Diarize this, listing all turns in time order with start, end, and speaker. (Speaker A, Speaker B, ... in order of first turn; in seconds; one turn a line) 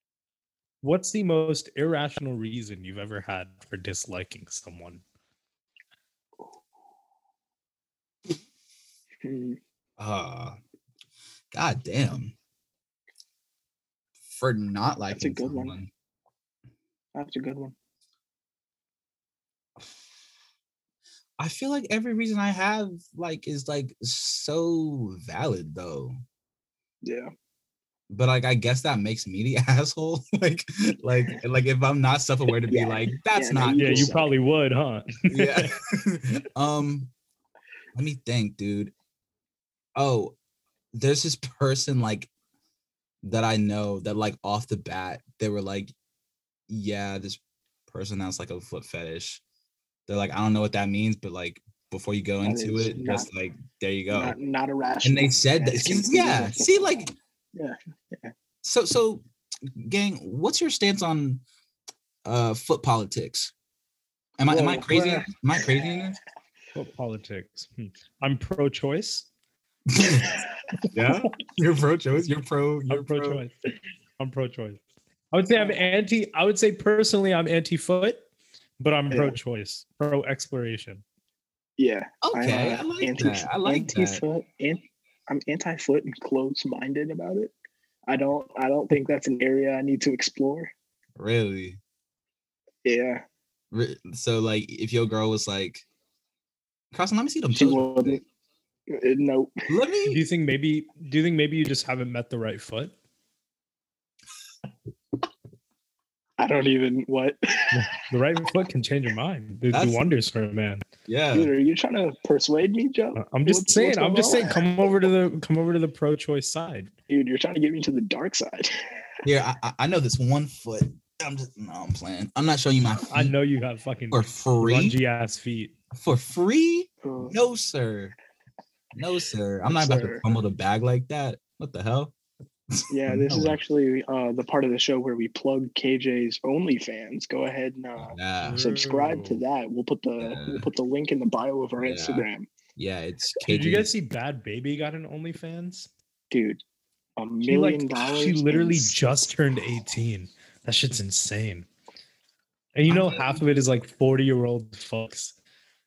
Speaker A: 0.8-5.0
Speaker B: 9.2-9.6
Speaker C: 10.0-10.6
Speaker C: 11.5-12.3
Speaker C: 14.3-15.9
Speaker B: 15.1-15.8
Speaker B: 17.1-17.8
Speaker C: 21.4-26.2
Speaker B: 27.0-27.3
Speaker C: 28.1-34.1
Speaker B: 32.7-34.3
Speaker A: 33.8-35.7
Speaker C: 35.3-37.1
Speaker C: 38.0-38.9
Speaker C: 40.0-40.4
Speaker C: 40.9-42.3
Speaker C: 43.2-45.9
Speaker C: 46.7-49.4
Speaker C: 50.1-54.4
Speaker B: 52.4-53.3
Speaker B: 54.1-57.0
Speaker C: 55.0-57.1
Speaker B: 57.5-58.3
Speaker C: 58.6-61.4
Speaker C: 62.2-63.5
Speaker C: 64.4-66.2
Speaker B: 64.5-65.3
Speaker A: 66.8-69.3
Speaker C: 69.9-70.3
Speaker C: 70.9-73.4
Speaker A: 72.9-73.5
Speaker A: 74.2-78.2
Speaker B: 75.5-75.9
Speaker A: 78.8-81.0
Speaker B: 79.1-79.4
Speaker B: 81.8-87.5
Speaker C: 82.2-84.2
Speaker B: 88.1-90.7
Speaker C: 91.2-91.8
Speaker B: 92.8-93.2
Speaker C: 93.7-95.8
Speaker C: 96.9-98.2
Speaker B: 97.5-98.2
Speaker B: 98.9-99.7
Speaker C: 99.7-100.2
Speaker A: 100.1-102.9
Speaker B: 106.4-107.8
Speaker A: 107.7-110.8
Speaker C: 109.7-110.0
Speaker C: 111.1-111.5
Speaker B: 111.3-115.1
Speaker A: 113.2-116.9
Speaker B: 117.1-118.8
Speaker C: 119.2-123.3
Speaker A: 123.1-125.7
Speaker C: 124.1-125.0
Speaker C: 126.0-128.2
Speaker B: 127.0-127.3
Speaker C: 128.9-132.1
Speaker B: 129.7-130.2
Speaker C: 132.7-133.6
Speaker B: 132.9-142.5
Speaker C: 138.0-138.7
Speaker A: 138.4-139.4
Speaker C: 140.2-140.7
Speaker C: 141.8-143.9
Speaker A: 143.5-145.9
Speaker B: 146.3-146.6
Speaker B: 147.2-148.9
Speaker A: 147.5-151.7
Speaker A: 152.8-155.4
Speaker C: 152.9-153.4